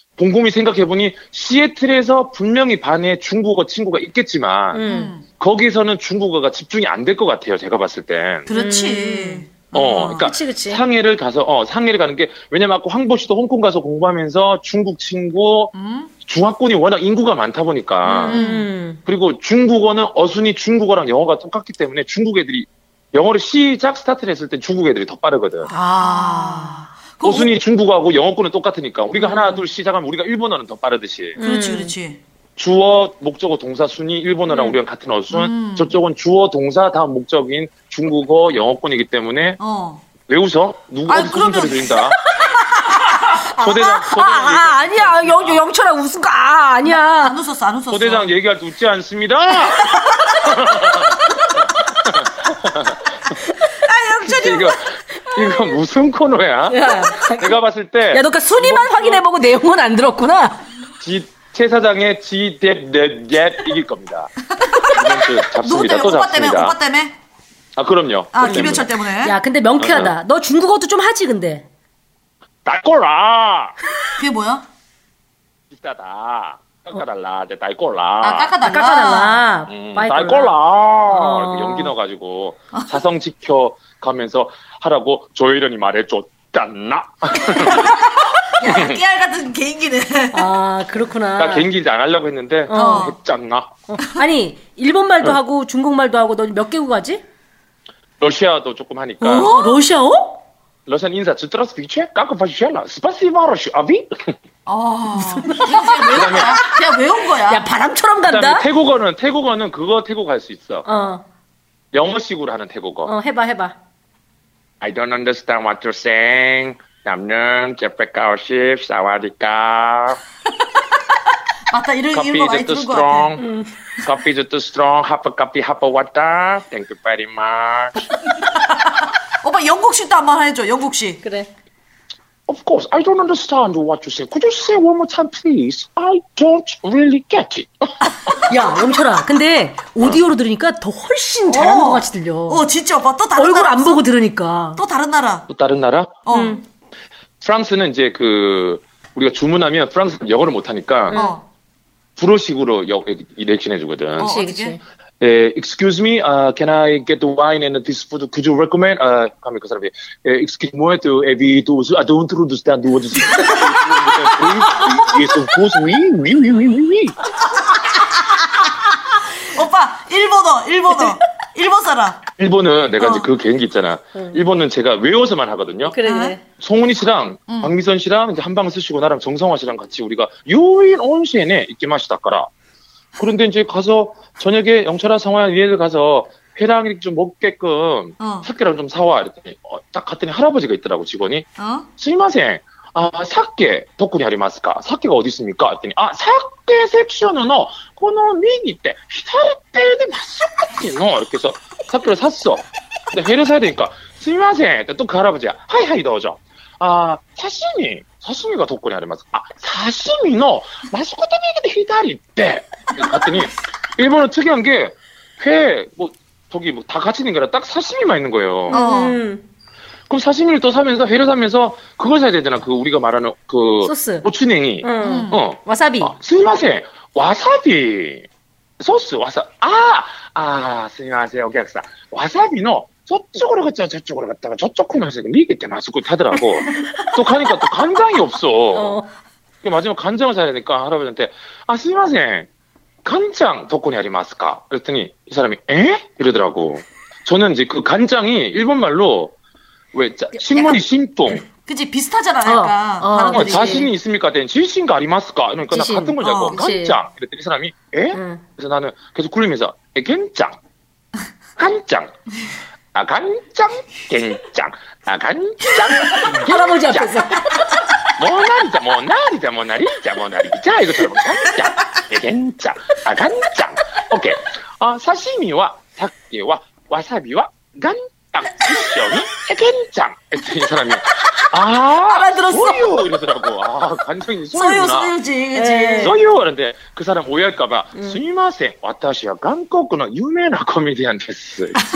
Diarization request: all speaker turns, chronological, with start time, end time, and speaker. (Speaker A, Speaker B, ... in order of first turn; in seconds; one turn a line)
Speaker A: 0.2-4.8
Speaker B: 4.7-5.1
Speaker C: 4.8-5.3
Speaker A: 5.4-8.5
Speaker C: 8.5-9.7
Speaker B: 8.5-10.8
Speaker A: 9.7-15.7
Speaker C: 15.7-16.1
Speaker A: 16.2-18.4
Speaker B: 18.0-19.0
Speaker C: 18.3-18.6
Speaker A: 19.1-25.7
Speaker B: 25.7-26.9
Speaker C: 26.0-27.5
Speaker A: 27.2-31.4
Speaker B: 29.2-29.6
Speaker B: 31.4-31.9
Speaker C: 31.4-32.2
Speaker A: 32.6-39.6
Speaker B: 34.5-34.7
Speaker C: 35.3-36.0
Speaker C: 39.6-40.1
Speaker A: 40.2-42.2
Speaker C: 41.1-42.1
Speaker B: 43.0-47.4
Speaker A: 43.5-45.6
Speaker C: 46.8-48.3
Speaker A: 47.9-49.8
Speaker A: 50.4-51.2
Speaker A: 52.0-53.0
Speaker C: 53.8-54.8
Speaker A: 54.2-59.2
Speaker B: 56.7-57.6
Speaker B: 58.1-60.7
Speaker A: 61.0-64.3
Speaker C: 64.6-67.1
Speaker A: 64.9-66.8
Speaker A: 67.8-68.9
Speaker C: 68.3-69.3
Speaker B: 68.4-71.7
Speaker A: 69.8-70.1
Speaker A: 72.6-73.7
Speaker C: 74.2-74.7
Speaker A: 75.7-78.5
Speaker C: 78.2-79.4
Speaker B: 78.6-80.5
Speaker A: 79.7-87.9
Speaker B: 81.1-81.9
Speaker C: 87.5-90.5
Speaker A: 88.7-89.0
Speaker B: 90.3-91.7
Speaker A: 91.4-93.7
Speaker B: 92.7-93.1
Speaker C: 92.7-93.2
Speaker B: 93.9-97.2
Speaker A: 98.2-99.5
Speaker B: 99.2-100.4
Speaker C: 99.3-99.8
Speaker A: 100.9-104.3
Speaker C: 104.7-107.6
Speaker B: 105.2-106.7
Speaker A: 106.1-106.7
Speaker B: 107.5-108.7
Speaker A: 108.2-110.8
Speaker B: 110.8-111.2
Speaker A: 111.9-113.1
Speaker B: 113.0-113.7
Speaker A: 114.8-120.2
Speaker C: 121.7-123.3
Speaker A: 122.1-123.4
Speaker B: 123.4-123.7
Speaker A: 124.0-127.9
Speaker C: 128.5-131.2
Speaker B: 131.2-131.5
Speaker A: 132.5-137.9
Speaker B: 138.5-142.6
Speaker C: 141.5-144.0
Speaker B: 143.3-144.8
Speaker C: 144.8-145.5
Speaker A: 145.5-146.2
Speaker C: 146.2-146.6
Speaker B: 146.3-146.6
Speaker A: 147.4-151.2
Speaker B: 151.1-151.4
Speaker C: 151.1-151.4
Speaker A: 152.2-154.4
Speaker C: 154.2-154.8
Speaker B: 154.2-154.8
Speaker A: 155.2-167.2
Speaker C: 169.4-172.2
Speaker A: 172.4-176.0
Speaker C: 173.0-173.3
Speaker B: 174.1-174.4
Speaker B: 175.9-176.4
Speaker C: 176.0-176.4
Speaker A: 176.5-182.5
Speaker C: 177.5-177.7
Speaker A: 183.2-191.5
Speaker C: 188.2-188.5
Speaker C: 191.6-191.9
Speaker A: 192.0-218.8
Speaker C: 218.7-219.2
Speaker B: 218.7-219.4
Speaker A: 220.1-228.2
Speaker B: 223.8-224.2
Speaker B: 224.8-226.1
Speaker C: 225.0-225.4
Speaker A: 228.8-239.0
Speaker B: 238.7-239.1
Speaker A: 239.6-242.5
Speaker A: 243.0-249.3
Speaker A: 249.9-251.4
Speaker C: 251.4-253.9
Speaker B: 252.4-253.9
Speaker A: 253.3-260.6
Speaker B: 255.7-257.0
Speaker C: 256.2-256.6
Speaker B: 258.1-258.4
Speaker A: 261.6-262.1
Speaker A: 262.9-267.2
Speaker B: 266.2-267.8
Speaker A: 268.2-285.1
Speaker C: 282.1-283.1
Speaker C: 284.5-286.2
Speaker B: 285.5-286.1
Speaker A: 286.0-291.8